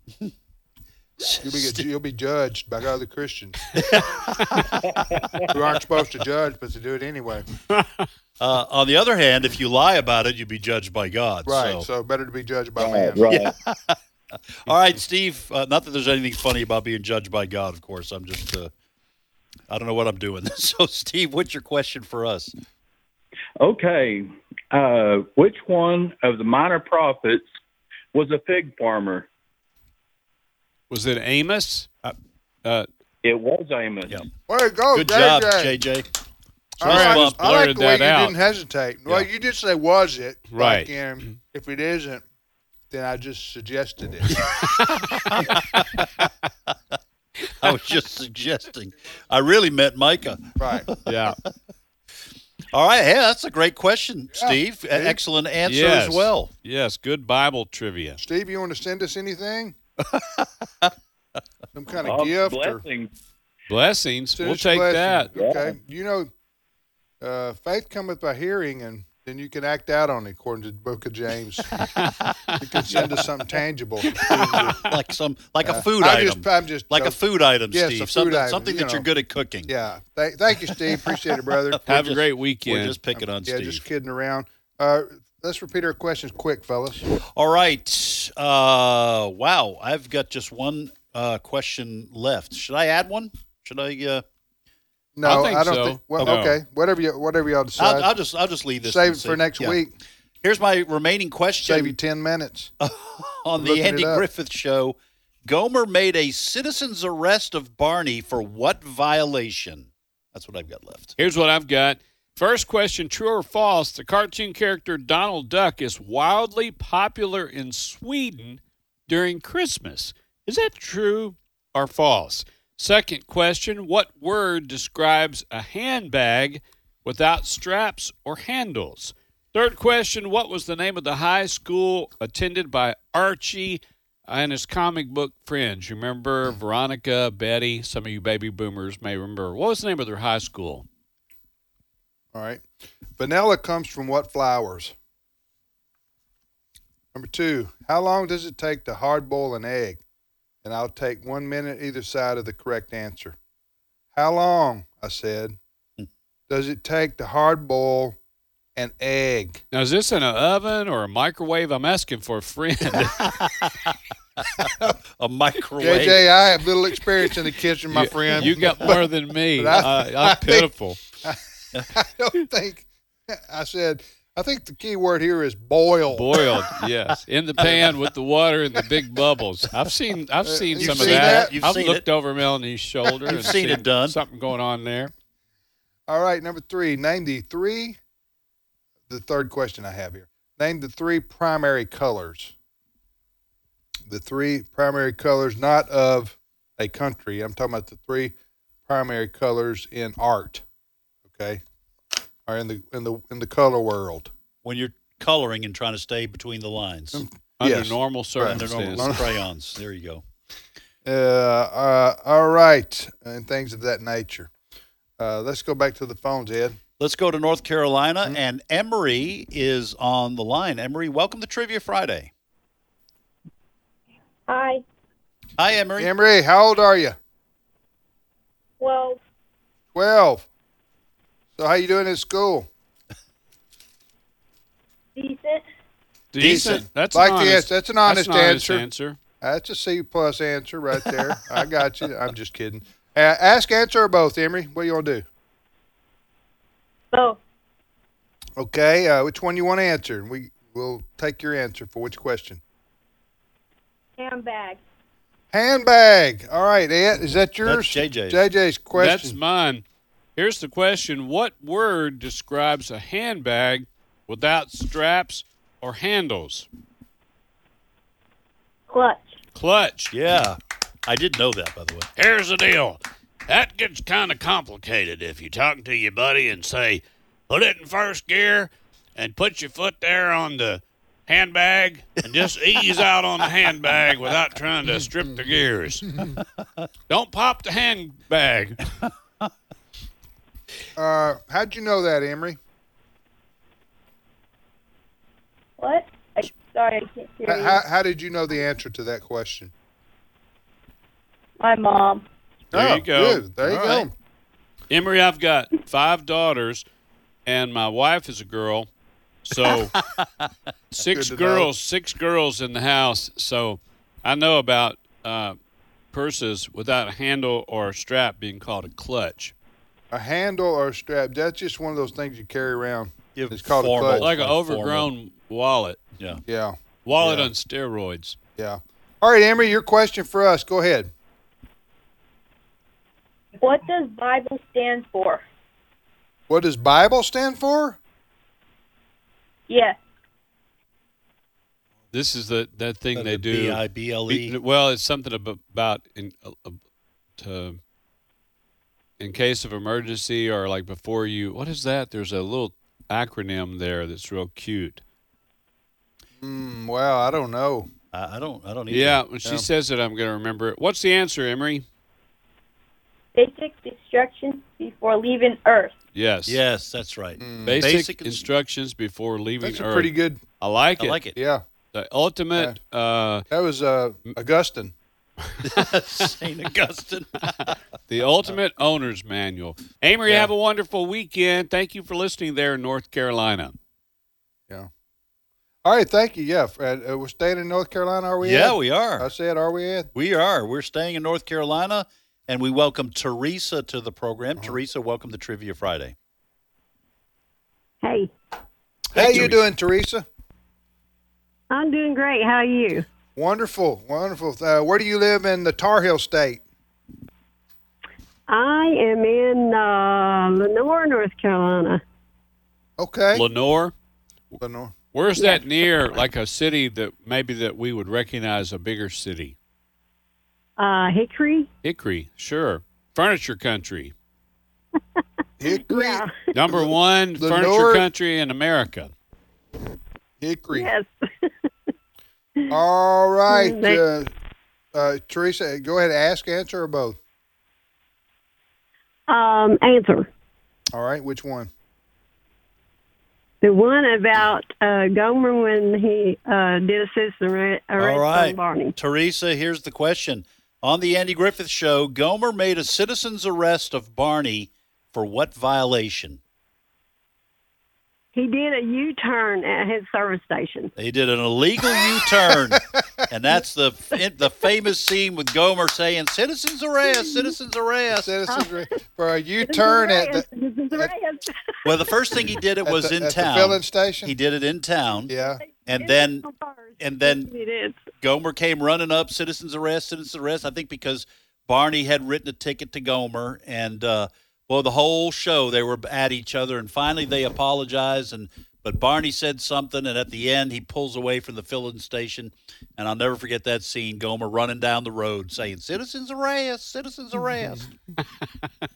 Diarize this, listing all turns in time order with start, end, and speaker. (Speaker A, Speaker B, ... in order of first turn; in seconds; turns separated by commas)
Speaker A: 1.2-1.8, Speaker B: 1.4-3.6, Speaker A: 3.7-4.9, Speaker C: 4.9-5.5, Speaker B: 5.5-7.5, Speaker D: 7.7-8.1, Speaker A: 8.4-11.8, Speaker B: 11.4-13.2, Speaker C: 12.8-13.5, Speaker A: 13.3-14.0, Speaker A: 14.7-18.7, Speaker A: 19.7-22.5, Speaker C: 23.6-27.4, Speaker C: 28.1-29.3, Speaker D: 30.9-32.1, Speaker C: 33.2-34.2, Speaker B: 34.5-35.8, Speaker A: 34.9-36.1, Speaker A: 36.8-37.4, Speaker B: 36.8-42.2, Speaker D: 36.8-38.3, Speaker D: 40.5-41.4, Speaker B: 42.9-44.4, Speaker D: 44.6-45.8, Speaker A: 45.1-46.0, Speaker A: 47.6-51.1, Speaker B: 50.6-50.9, Speaker D: 51.0-51.4, Speaker A: 52.7-56.5, Speaker B: 54.3-55.2, Speaker D: 55.6-58.2, Speaker B: 58.2-59.8, Speaker A: 60.1-60.9, Speaker B: 61.7-62.8, Speaker C: 62.0-63.1, Speaker D: 63.7-65.3, Speaker B: 64.3-66.3, Speaker C: 65.3-65.7, Speaker B: 67.2-71.7, Speaker D: 72.0-72.6, Speaker B: 72.6-74.8, Speaker A: 74.2-79.7, Speaker D: 74.3-74.7, Speaker B: 75.6-77.2, Speaker B: 77.7-79.1, Speaker B: 79.7-81.9, Speaker A: 81.8-83.8, Speaker D: 81.9-83.0, Speaker B: 83.1-87.1, Speaker A: 87.3-94.2, Speaker B: 95.1-98.1, Speaker D: 95.2-96.6, Speaker A: 97.8-99.8, Speaker B: 98.8-99.9, Speaker A: 100.4-102.0, Speaker B: 101.6-102.7, Speaker A: 102.8-111.1, Speaker B: 103.6-104.2, Speaker D: 111.2-140.8, Speaker B: 142.3-144.9, Speaker B: 147.1-150.0, Speaker B: 150.6-153.4, Speaker B: 154.1-155.6, Speaker B: 156.5-158.2, Speaker B: 158.8-159.6, Speaker D: 159.7-163.3, Speaker A: 163.2-166.2, Speaker B: 165.8-176.4, Speaker D: 167.9-171.0, Speaker D: 176.1-185.1, Speaker A: 177.6-177.8, Speaker B: 180.4-181.5, Speaker A: 180.8-182.1, Speaker A: 183.2-184.2, Speaker B: 183.2-183.7, Speaker B: 186.1-188.0, Speaker B: 189.1-192.5, Speaker B: 194.1-198.3, Speaker B: 198.9-200.6, Speaker B: 201.3-201.6, Speaker B: 202.5-204.3, Speaker A: 204.6-207.2, Speaker B: 207.1-209.3, Speaker D: 207.6-209.2, Speaker A: 208.4-210.2, Speaker B: 211.0-214.5, Speaker B: 215.2-216.8, Speaker A: 217.0-222.3, Speaker E: 224.5-224.8, Speaker A: 225.6-226.1, Speaker B: 226.0-227.2, Speaker E: 228.8-229.2, Speaker B: 229.9-230.4, Speaker B: 231.6-232.7, Speaker E: 235.2-235.6, Speaker D: 236.3-239.2, Speaker B: 236.4-238.8, Speaker B: 239.4-245.2, Speaker E: 247.1-247.4, Speaker B: 248.6-252.6, Speaker E: 254.2-254.8, Speaker B: 255.5-259.4, Speaker A: 257.6-258.4, Speaker D: 258.9-259.8, Speaker D: 260.4-266.7, Speaker E: 268.9-269.3, Speaker D: 269.5-270.1, Speaker A: 270.1-272.1, Speaker D: 272.2-286.2, Speaker D: 287.1-288.9, Speaker B: 291.0-292.6, Speaker E: 295.8-297.8, Speaker B: 297.4-299.7, Speaker E: 301.6-302.2, Speaker B: 302.7-304.1, Speaker D: 302.7-304.1, Speaker D: 304.9-306.8, Speaker D: 307.4-308.9, Speaker D: 309.4-309.9, Speaker A: 309.5-310.5, Speaker D: 310.9-315.6, Speaker B: 311.1-311.7, Speaker D: 316.1-319.5, Speaker B: 320.1-324.3, Speaker A: 323.3-325.1, Speaker D: 324.1-326.0, Speaker B: 326.5-327.5, Speaker D: 327.0-328.4, Speaker B: 328.6-331.1, Speaker E: 333.6-335.4, Speaker B: 336.5-338.0, Speaker E: 339.7-340.0, Speaker D: 342.1-346.8, Speaker A: 343.1-344.5, Speaker D: 347.4-347.8, Speaker D: 349.2-355.0, Speaker B: 356.4-357.9, Speaker A: 358.1-359.2, Speaker D: 358.9-361.8, Speaker E: 363.3-365.9, Speaker D: 366.1-366.6, Speaker A: 366.5-368.4, Speaker B: 367.4-367.8, Speaker D: 367.6-370.1, Speaker B: 369.6-370.4, Speaker D: 370.6-371.2, Speaker A: 371.0-371.3, Speaker B: 371.3-371.6, Speaker D: 371.9-373.4, Speaker B: 373.5-374.9, Speaker A: 375.6-377.7, Speaker D: 378.1-383.8, Speaker B: 385.8-390.1, Speaker A: 388.4-389.3, Speaker A: 390.1-396.1, Speaker F: 398.0-398.3, Speaker B: 399.1-400.2, Speaker A: 399.1-399.6, Speaker F: 401.7-403.1, Speaker B: 403.4-406.6, Speaker F: 408.5-412.0, Speaker B: 413.0-413.4, Speaker D: 413.3-413.9, Speaker B: 414.6-414.9, Speaker D: 415.1-419.5, Speaker F: 415.4-416.2, Speaker F: 420.8-421.7, Speaker D: 421.8-424.1, Speaker B: 425.6-428.1, Speaker F: 425.7-426.3, Speaker D: 426.5-429.1, Speaker B: 430.4-430.9, Speaker F: 430.7-431.5, Speaker B: 432.7-434.3, Speaker F: 433.5-434.0, Speaker B: 434.9-437.2, Speaker F: 439.3-440.3, Speaker B: 440.9-441.7, Speaker F: 443.6-448.9, Speaker A: 448.0-456.4, Speaker F: 458.3-460.9, Speaker A: 461.0-468.4, Speaker F: 467.0-467.5, Speaker B: 468.1-471.1, Speaker F: 468.5-468.9, Speaker F: 469.6-472.1, Speaker A: 471.9-475.3, Speaker B: 472.8-474.3, Speaker B: 475.3-475.6, Speaker F: 475.4-478.0, Speaker A: 475.9-476.4, Speaker A: 477.0-477.5, Speaker A: 478.2-497.9